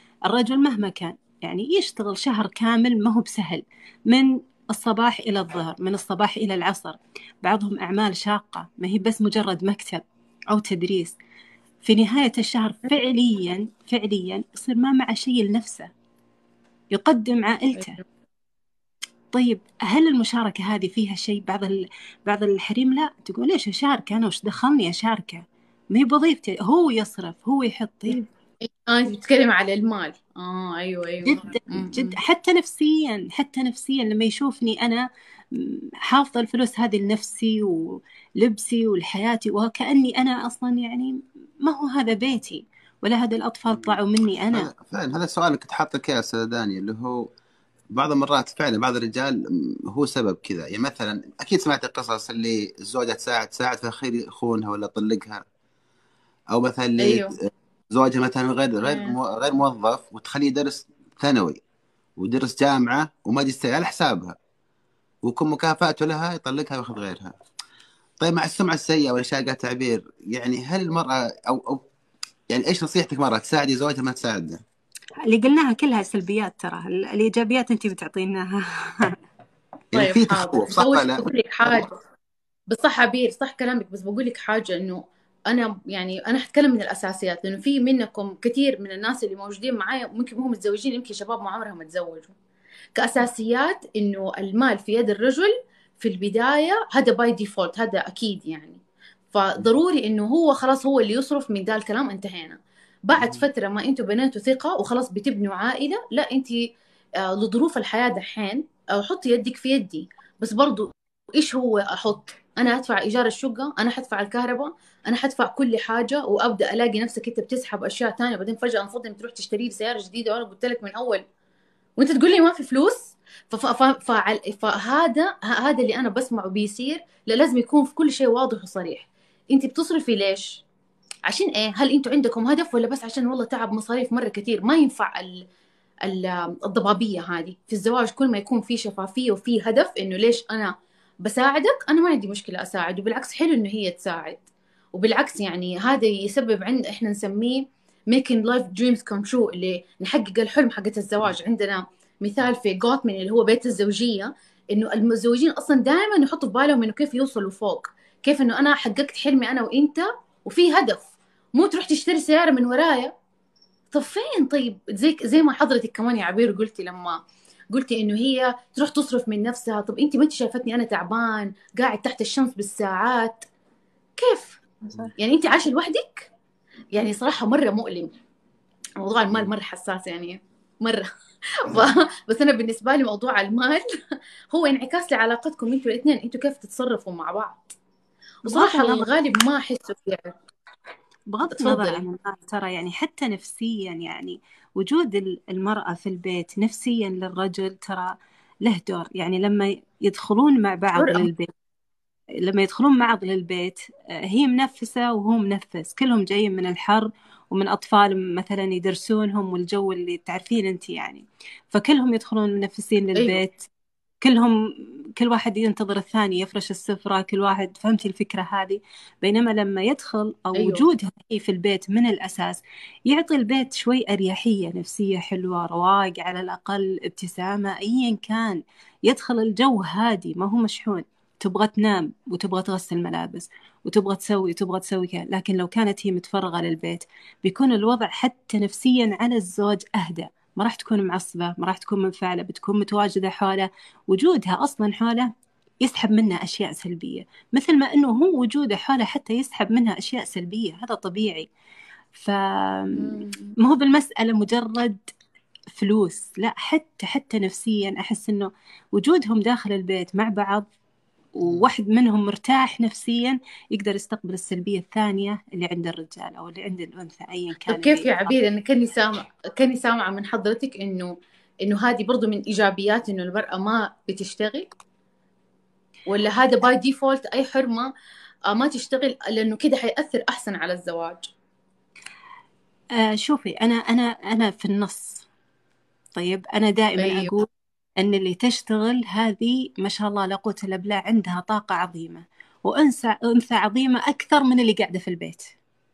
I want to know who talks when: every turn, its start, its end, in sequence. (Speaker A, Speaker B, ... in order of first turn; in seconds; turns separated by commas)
Speaker A: 0.3-11.2, Speaker A: 11.8-15.9, Speaker A: 16.9-18.0, Speaker A: 19.3-28.2, Speaker B: 28.1-32.2, Speaker A: 31.3-44.7, Speaker C: 43.7-44.0, Speaker C: 44.5-47.3, Speaker C: 47.9-55.5, Speaker C: 56.5-61.6, Speaker B: 57.0-57.4, Speaker B: 58.8-59.2, Speaker C: 62.2-64.4, Speaker C: 65.2-67.4, Speaker C: 68.2-71.8, Speaker C: 72.5-74.6, Speaker A: 75.3-79.2, Speaker C: 79.9-81.8, Speaker B: 79.9-82.0, Speaker B: 82.7-92.3, Speaker B: 93.0-98.8, Speaker B: 99.3-106.6, Speaker B: 107.2-121.2, Speaker B: 122.0-130.6, Speaker B: 131.3-135.5, Speaker B: 136.1-163.1, Speaker B: 163.9-167.2, Speaker B: 167.7-173.5, Speaker B: 174.2-174.6, Speaker B: 175.2-176.3, Speaker B: 176.9-178.1, Speaker B: 179.0-181.1, Speaker B: 181.6-183.8, Speaker B: 184.5-187.8, Speaker A: 188.5-189.1, Speaker B: 188.5-190.3, Speaker A: 191.3-201.5, Speaker B: 191.5-192.0, Speaker B: 201.0-201.3, Speaker A: 202.4-213.7, Speaker B: 213.2-213.4, Speaker A: 214.2-214.6, Speaker A: 215.2-245.3, Speaker B: 220.6-220.9, Speaker A: 245.8-251.5, Speaker A: 252.1-255.0, Speaker B: 253.0-253.5, Speaker A: 255.7-260.6, Speaker A: 261.4-268.3, Speaker B: 267.7-274.7, Speaker B: 276.1-277.9, Speaker B: 278.5-281.3, Speaker A: 283.0-285.3, Speaker A: 286.2-295.5, Speaker B: 287.0-287.3